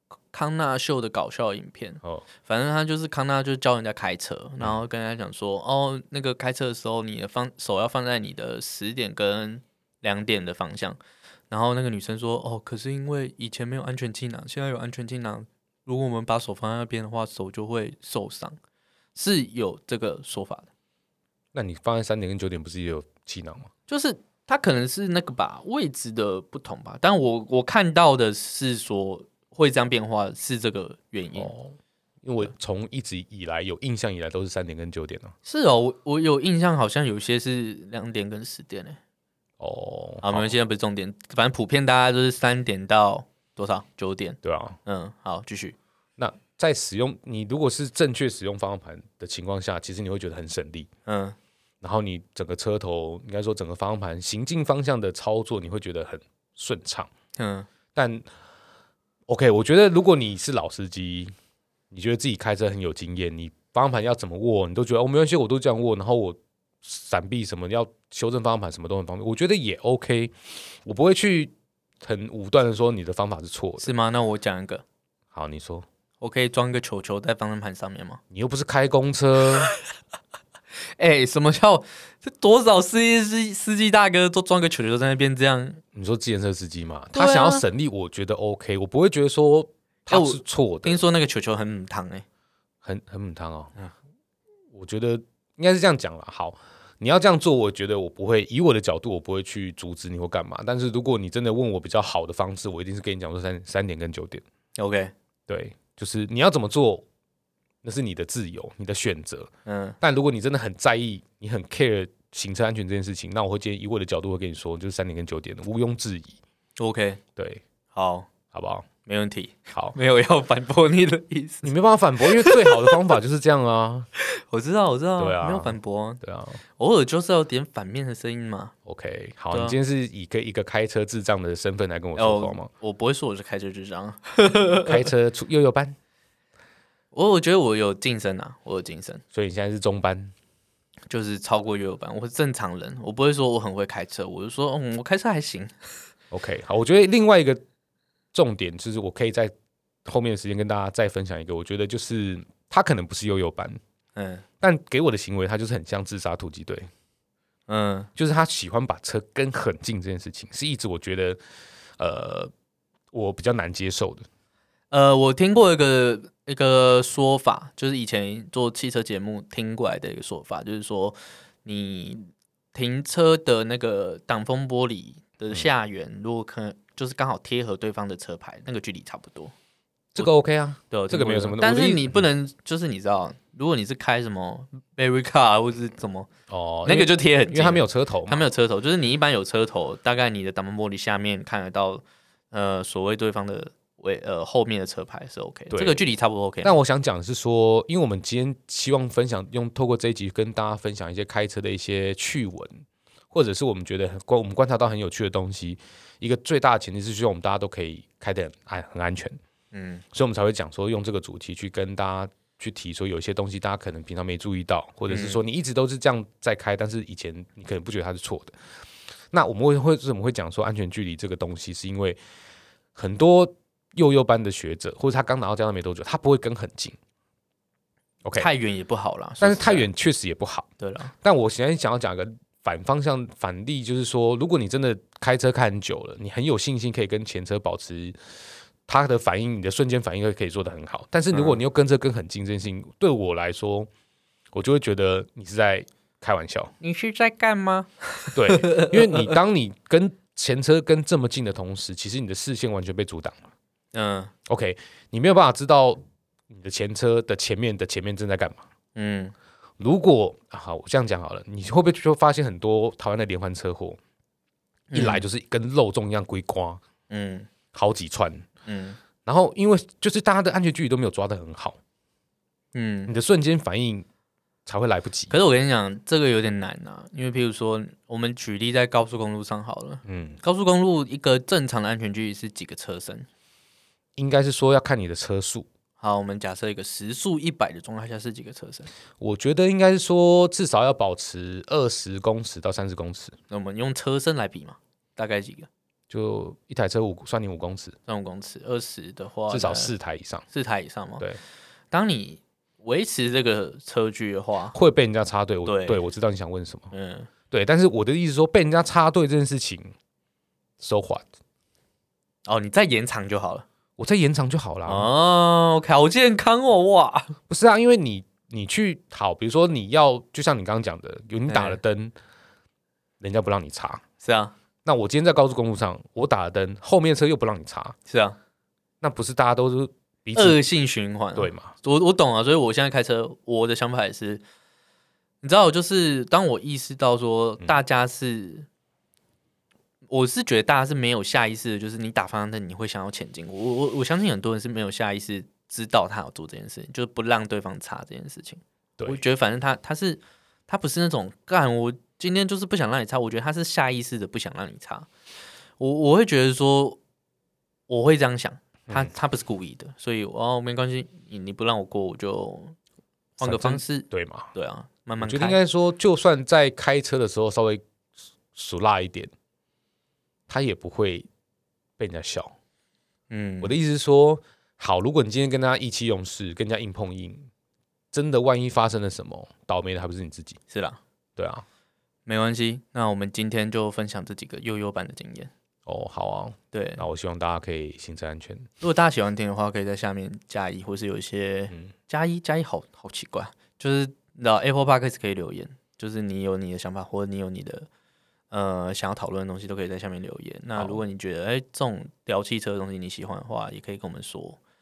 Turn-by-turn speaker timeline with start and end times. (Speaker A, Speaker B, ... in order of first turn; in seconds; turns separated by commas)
Speaker A: 0.3-18.6, Speaker A: 19.1-20.7, Speaker B: 21.5-23.7, Speaker A: 23.9-31.5, Speaker B: 31.3-35.3, Speaker A: 35.4-39.0, Speaker B: 39.6-40.5, Speaker A: 40.2-45.8, Speaker B: 44.4-44.8, Speaker B: 46.2-50.9, Speaker A: 51.0-51.4, Speaker B: 51.8-57.1, Speaker A: 57.4-57.7, Speaker B: 57.9-58.2, Speaker B: 59.3-61.3, Speaker B: 61.9-73.9, Speaker A: 73.8-74.8, Speaker B: 75.3-75.8, Speaker A: 76.2-78.2, Speaker B: 78.3-79.7, Speaker A: 81.0-85.8, Speaker B: 85.9-91.0, Speaker A: 87.2-87.6, Speaker A: 90.1-92.2, Speaker B: 92.8-93.7, Speaker B: 94.7-104.4, Speaker A: 104.8-105.1, Speaker B: 105.5-107.0, Speaker B: 107.8-109.5, Speaker A: 109.7-110.0, Speaker B: 110.0-116.4, Speaker A: 116.8-117.2, Speaker B: 117.3-117.6, Speaker A: 117.9-118.3, Speaker B: 118.5-118.9, Speaker A: 119.0-121.7, Speaker B: 121.6-124.1, Speaker A: 122.2-123.1, Speaker A: 124.2-126.2, Speaker B: 125.2-126.6, Speaker A: 126.8-128.7, Speaker B: 128.8-132.7, Speaker A: 129.5-129.8, Speaker A: 132.2-135.0, Speaker B: 134.6-135.9, Speaker A: 137.1-139.2, Speaker B: 139.3-140.3, Speaker A: 141.1-145.8, Speaker B: 146.3-147.6, Speaker B: 148.3-149.5, Speaker B: 150.0-153.8, Speaker A: 154.1-154.4, Speaker B: 154.6-156.9, Speaker A: 157.7-158.1, Speaker B: 158.2-161.4, Speaker B: 162.0-162.5, Speaker B: 163.1-164.2, Speaker A: 164.9-179.5, Speaker B: 180.1-182.2, Speaker A: 180.9-186.3, Speaker B: 186.5-188.4, Speaker A: 186.8-196.8, Speaker B: 195.7-196.0, Speaker B: 196.6-209.4, Speaker A: 209.7-210.0, Speaker B: 210.1-218.5, Speaker A: 215.1-215.4, Speaker B: 219.3-222.2, Speaker B: 222.9-227.0, Speaker A: 228.4-229.9, Speaker B: 229.4-230.7, Speaker A: 230.8-231.1, Speaker B: 231.2-238.2, Speaker B: 238.9-243.9, Speaker A: 241.3-241.6, Speaker B: 244.5-246.7, Speaker A: 246.8-249.3, Speaker B: 248.3-253.4, Speaker A: 253.9-254.3, Speaker B: 254.5-258.6, Speaker A: 258.9-259.3, Speaker B: 259.8-264.0, Speaker A: 264.9-265.2, Speaker B: 264.9-266.8, Speaker A: 267.1-267.5, Speaker B: 267.7-268.5, Speaker A: 268.6-269.0, Speaker B: 269.2-271.8, Speaker A: 272.7-273.1, Speaker B: 273.1-274.1, Speaker B: 274.6-275.3, Speaker A: 275.3-283.3, Speaker B: 280.1-280.4, Speaker B: 284.2-285.7, Speaker A: 286.0-288.9, Speaker B: 289.2-293.4, Speaker A: 293.5-295.7, Speaker B: 296.1-297.9, Speaker A: 298.1-299.9, Speaker B: 299.5-300.4, Speaker A: 300.5-301.2, Speaker A: 301.9-304.7, Speaker B: 304.7-306.9, Speaker A: 305.6-306.0, Speaker A: 306.9-307.3, Speaker B: 307.5-309.9, Speaker B: 310.8-311.2, Speaker A: 312.4-313.6, Speaker B: 314.0-315.1, Speaker A: 314.9-317.3, Speaker B: 317.5-322.1, Speaker A: 321.5-321.8, Speaker B: 323.2-324.0, Speaker A: 324.2-324.5, Speaker B: 324.8-327.9, Speaker A: 328.1-328.4, Speaker B: 329.0-330.6, Speaker A: 330.4-334.4, Speaker B: 331.4-331.7, Speaker A: 335.4-338.7, Speaker A: 340.1-355.1, Speaker A: 355.8-357.0, Speaker A: 357.9-362.8, Speaker A: 363.4-365.6, Speaker B: 363.4-364.5, Speaker B: 365.2-367.8, Speaker B: 368.5-369.3, Speaker B: 370.5-371.3, Speaker B: 372.0-372.5, Speaker A: 373.3-373.7, Speaker B: 373.6-377.5, Speaker B: 378.1-380.6, Speaker A: 380.7-381.0, Speaker B: 381.4-381.6, Speaker A: 382.3-385.5, Speaker B: 385.9-388.7, Speaker A: 386.7-387.0, Speaker A: 388.8-397.9, Speaker A: 398.5-404.6, Speaker B: 400.8-401.0